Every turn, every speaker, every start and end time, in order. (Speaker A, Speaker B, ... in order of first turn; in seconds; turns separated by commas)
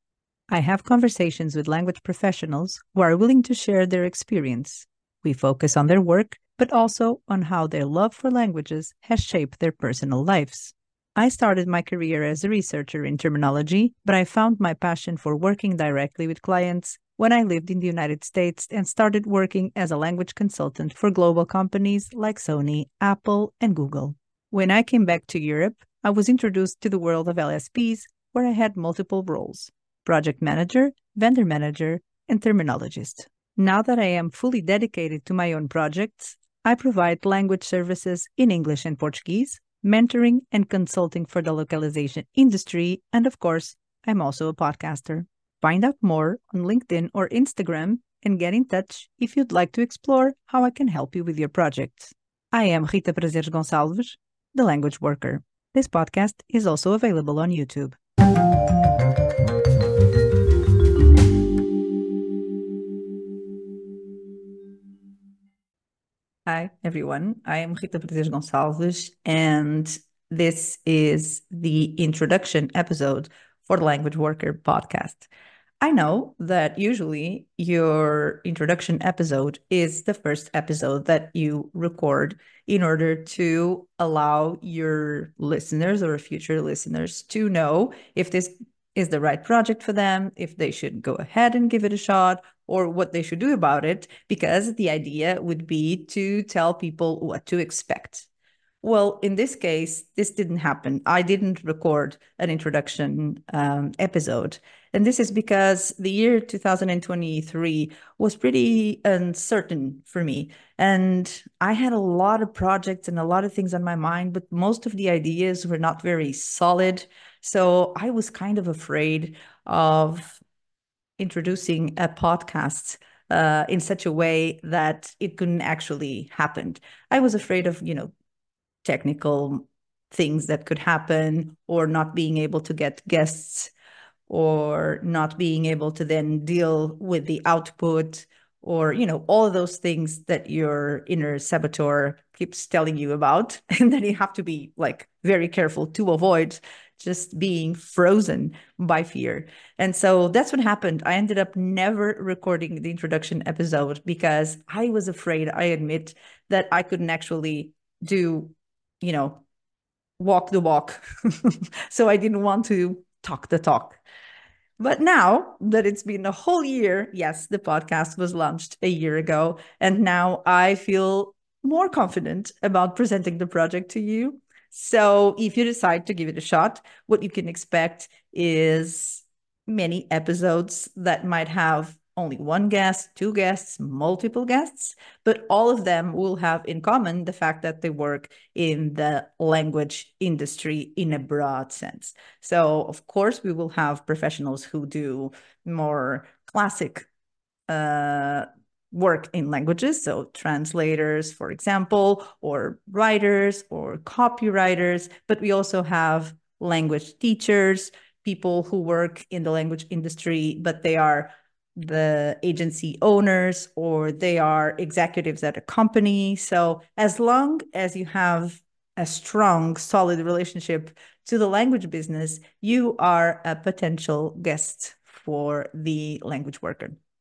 Speaker A: 0.5-58.0, Speaker A: 66.5-75.3, Speaker A: 75.8-98.3, Speaker A: 98.8-120.4, Speaker A: 121.2-128.1, Speaker A: 128.8-133.7, Speaker A: 134.3-159.4, Speaker A: 160.2-164.0, Speaker A: 164.8-197.1, Speaker A: 197.7-227.0